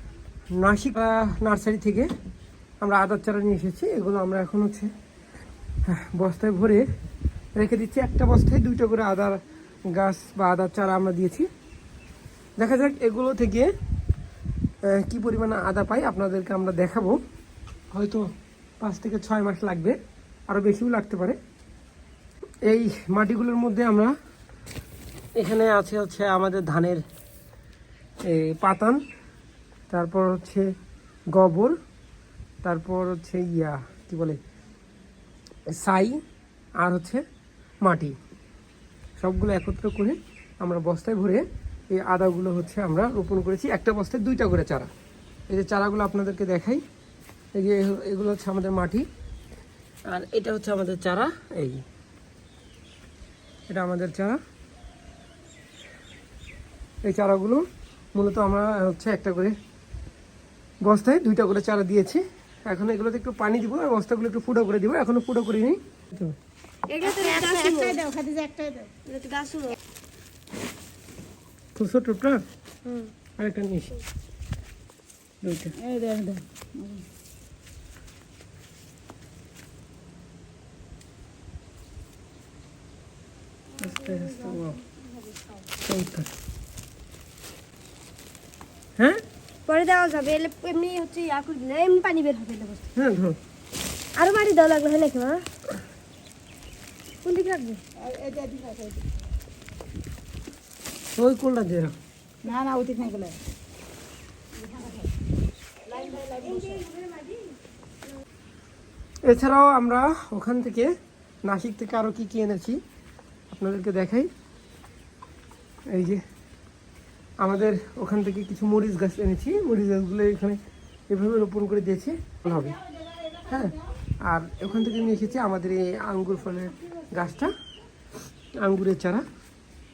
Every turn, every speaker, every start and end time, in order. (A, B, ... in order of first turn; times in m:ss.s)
0:00.6-0:02.1 A
0:02.8-0:04.9 A
0:05.9-0:06.8 A
0:07.6-0:11.5 A
0:12.6-0:13.7 A
0:14.8-0:17.2 A
0:17.9-0:18.3 A
0:18.8-0:20.0 A
0:20.5-0:21.4 A
0:22.7-0:24.2 A
0:25.4-0:27.0 A
0:28.2-0:29.0 A
0:29.9-0:30.7 A
0:31.3-0:31.8 A
0:32.6-0:34.4 A
0:35.7-0:36.2 A
0:36.8-0:37.2 A
0:37.8-0:38.2 A
0:39.2-0:44.9 A
0:45.5-0:46.8 A
0:47.6-0:49.1 A
0:50.1-0:51.8 A
0:53.7-0:54.4 A
0:57.0-0:59.6 A
1:00.8-1:06.3 A
1:06.9-1:08.0 B
1:07.1-1:08.9 C
1:09.0-1:09.8 B
1:11.8-1:12.4 A
1:12.8-1:13.1 B
1:13.4-1:14.0 A
1:15.4-1:15.7 A
1:15.8-1:17.0 C
1:23.8-1:24.8 A
1:25.8-1:26.3 A
1:29.7-1:32.9 B
1:33.0-1:33.4 A
1:34.2-1:35.4 B
1:37.2-1:37.8 B
1:38.0-1:39.1 C
1:41.2-1:42.0 A
1:42.4-1:43.4 C
1:44.6-1:45.1 C
1:45.9-1:46.9 C
1:46.1-1:47.5 B
1:49.2-1:50.9 A
1:51.4-1:52.8 A
1:53.5-1:54.3 A
1:55.9-1:56.2 A
1:57.4-2:02.8 A
2:03.5-2:07.5 A
2:08.6-2:09.2 A